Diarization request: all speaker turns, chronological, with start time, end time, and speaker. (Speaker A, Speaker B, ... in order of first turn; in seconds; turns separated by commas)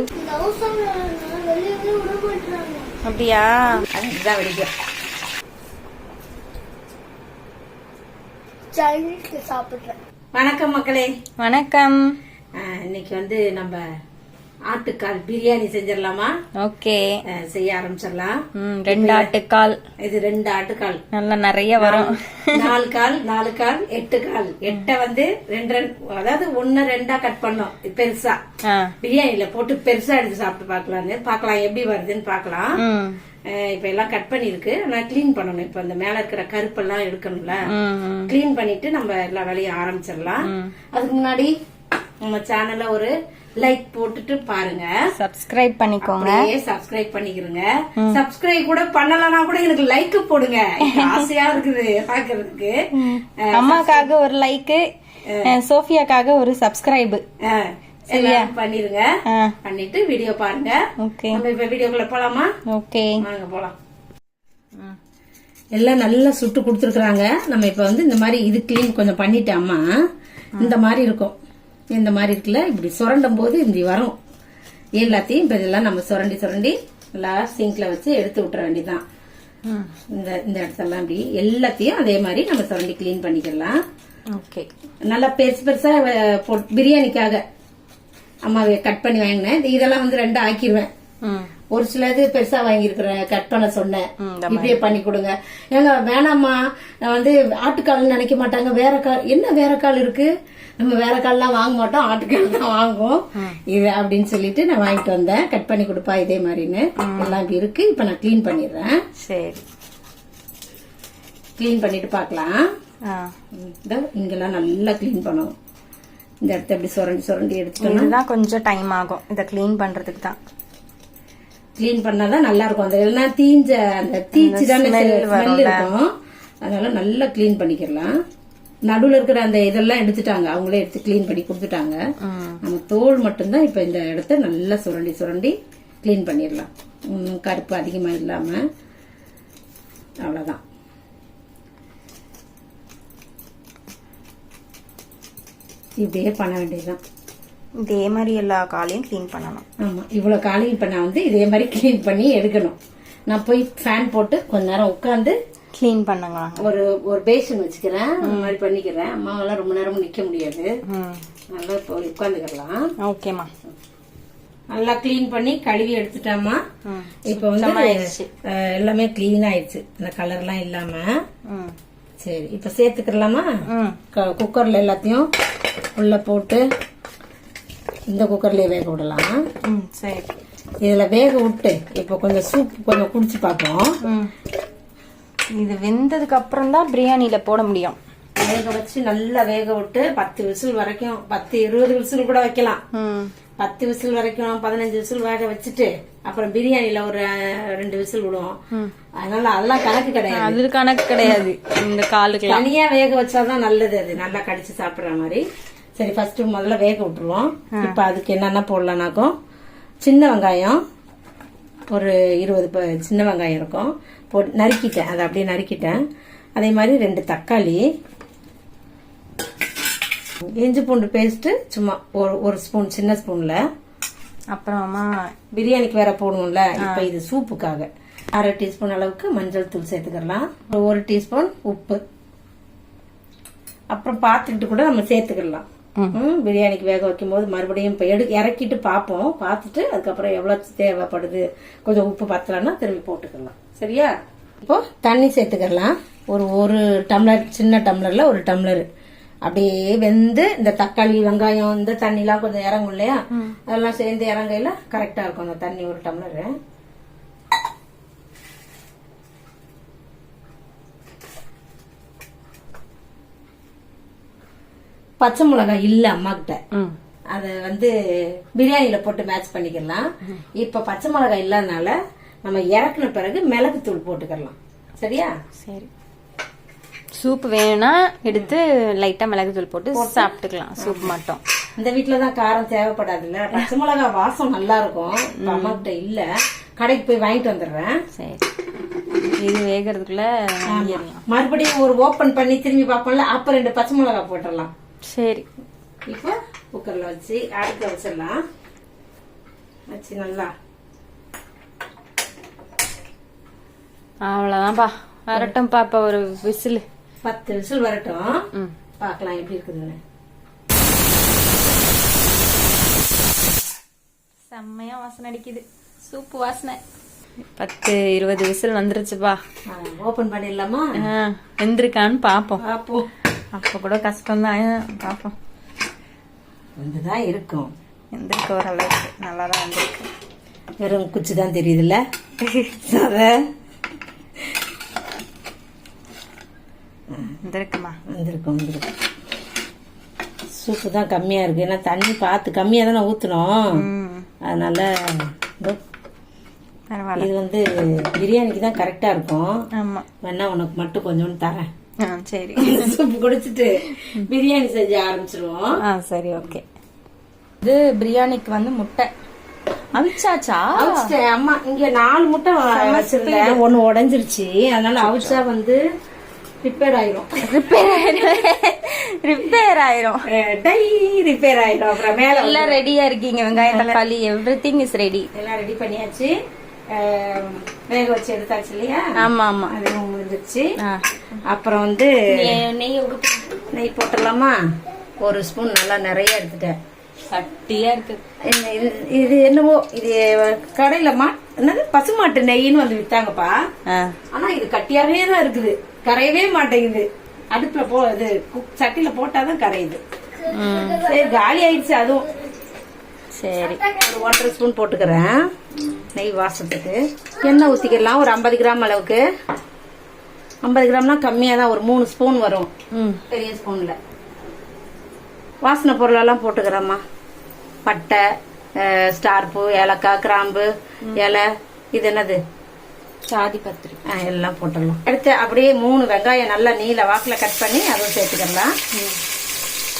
Speaker A: 0.2-3.0, Speaker B: 3.0-3.8, Speaker C: 3.9-4.7, Speaker A: 8.7-9.9, Speaker C: 10.3-11.1, Speaker B: 11.4-12.0, Speaker C: 12.6-13.8, Speaker C: 14.7-16.3, Speaker B: 16.6-17.1, Speaker C: 17.3-18.3, Speaker B: 18.5-19.8, Speaker C: 18.9-19.3, Speaker C: 20.0-21.0, Speaker B: 21.1-22.7, Speaker C: 21.8-28.4, Speaker B: 28.6-28.9, Speaker C: 29.0-32.8, Speaker B: 32.8-33.2, Speaker C: 33.5-37.7, Speaker B: 37.7-38.3, Speaker C: 38.3-41.5, Speaker B: 40.4-40.7, Speaker C: 42.2-44.9, Speaker B: 45.1-46.5, Speaker C: 46.0-52.8, Speaker B: 50.8-51.2, Speaker B: 52.9-54.8, Speaker C: 53.4-54.1, Speaker C: 55.3-55.5, Speaker B: 55.4-57.2, Speaker C: 57.4-59.0, Speaker B: 58.1-58.5, Speaker B: 59.3-59.5, Speaker C: 59.6-60.8, Speaker B: 61.0-61.4, Speaker C: 61.3-62.5, Speaker B: 62.6-63.2, Speaker C: 63.2-63.7, Speaker C: 65.7-69.8, Speaker C: 70.6-71.3, Speaker C: 71.9-74.2, Speaker C: 75.0-79.0, Speaker B: 79.7-79.9, Speaker C: 80.1-83.8, Speaker B: 84.3-84.7, Speaker C: 85.1-87.4, Speaker C: 88.4-90.9, Speaker B: 91.2-91.5, Speaker C: 91.7-108.9, Speaker B: 94.2-94.9, Speaker B: 107.0-107.4, Speaker B: 109.2-109.6, Speaker C: 111.6-112.6, Speaker B: 113.0-113.3, Speaker C: 113.5-115.5, Speaker C: 116.4-118.1, Speaker B: 117.8-120.4, Speaker C: 121.8-126.1, Speaker B: 124.3-125.9, Speaker C: 126.6-128.1, Speaker C: 128.9-132.0, Speaker B: 132.2-132.6, Speaker C: 132.6-138.7, Speaker C: 140.2-140.6, Speaker C: 146.0-147.0, Speaker B: 147.8-149.6, Speaker C: 149.8-152.8, Speaker C: 153.3-155.4, Speaker B: 155.8-156.6, Speaker C: 156.6-160.7, Speaker B: 158.2-158.5, Speaker B: 160.9-161.2, Speaker C: 161.5-162.9, Speaker B: 163.0-163.5, Speaker C: 164.7-166.6, Speaker B: 166.8-168.3, Speaker C: 167.3-171.1, Speaker B: 171.5-171.7, Speaker C: 172.2-173.4, Speaker B: 173.7-174.0, Speaker C: 174.1-175.3, Speaker C: 175.9-176.6, Speaker C: 178.1-179.3, Speaker B: 179.6-180.3, Speaker C: 180.8-183.9, Speaker B: 184.0-184.3, Speaker B: 185.5-188.0, Speaker C: 188.4-192.8, Speaker B: 192.9-193.3, Speaker C: 193.6-198.6, Speaker C: 199.2-200.6, Speaker B: 200.3-202.6, Speaker C: 202.4-205.4, Speaker C: 206.0-209.3, Speaker B: 207.7-208.0, Speaker C: 210.0-210.8, Speaker C: 211.9-216.0, Speaker C: 216.6-217.8, Speaker C: 220.6-223.6, Speaker B: 224.5-225.3, Speaker C: 225.5-232.0, Speaker B: 226.8-227.1, Speaker C: 233.9-248.8, Speaker C: 249.4-256.6, Speaker C: 265.2-266.6, Speaker C: 267.3-267.9, Speaker C: 268.5-270.0, Speaker C: 270.6-275.3, Speaker B: 275.6-275.9, Speaker B: 277.1-281.4, Speaker C: 279.9-281.1, Speaker C: 281.8-286.2, Speaker B: 285.4-285.8, Speaker C: 286.8-288.0, Speaker B: 288.1-288.5, Speaker B: 289.1-291.2, Speaker C: 290.7-294.7, Speaker B: 295.1-295.4, Speaker C: 296.1-298.4, Speaker C: 299.9-300.5, Speaker B: 304.2-306.9, Speaker C: 307.2-308.4, Speaker C: 309.0-310.0, Speaker B: 314.5-316.8, Speaker B: 317.6-319.4, Speaker C: 319.7-320.9, Speaker B: 321.0-322.6, Speaker C: 322.6-323.0, Speaker B: 323.5-325.3, Speaker C: 326.8-327.7, Speaker B: 328.1-330.1, Speaker C: 330.8-332.0, Speaker B: 332.4-332.8, Speaker C: 332.8-333.4, Speaker C: 337.1-337.4, Speaker B: 337.4-338.0, Speaker C: 338.1-338.9, Speaker C: 340.5-343.8, Speaker B: 343.7-344.3, Speaker C: 344.4-345.8, Speaker B: 346.9-347.3, Speaker C: 347.1-349.5, Speaker B: 349.8-350.1, Speaker C: 350.2-351.6, Speaker B: 352.0-353.0, Speaker C: 352.6-355.8, Speaker B: 354.0-354.3, Speaker B: 355.8-356.6, Speaker B: 357.6-359.1, Speaker B: 359.9-361.1, Speaker C: 360.7-365.8, Speaker B: 362.7-363.6, Speaker B: 365.0-365.4, Speaker C: 366.6-367.3, Speaker B: 367.4-370.2, Speaker C: 370.3-372.8, Speaker B: 372.1-375.3, Speaker C: 373.6-373.9, Speaker C: 375.3-376.3, Speaker C: 376.9-379.1, Speaker B: 379.2-379.7, Speaker C: 379.7-380.7, Speaker B: 380.8-381.2, Speaker C: 381.5-382.5, Speaker B: 382.3-383.7, Speaker C: 383.7-384.5, Speaker C: 385.2-386.8, Speaker B: 387.3-388.2, Speaker C: 388.4-393.6, Speaker B: 393.9-394.2, Speaker C: 394.3-400.0, Speaker A: 400.3-402.6, Speaker B: 400.5-401.0, Speaker C: 401.0-402.3, Speaker B: 403.3-403.8, Speaker A: 403.6-404.5, Speaker C: 404.0-405.4, Speaker C: 406.1-409.2, Speaker A: 407.4-408.1, Speaker C: 410.6-412.7, Speaker B: 412.9-413.2, Speaker C: 413.3-413.9, Speaker C: 415.6-417.0, Speaker C: 417.9-418.2, Speaker C: 418.8-422.4, Speaker B: 423.3-424.0, Speaker C: 424.1-428.7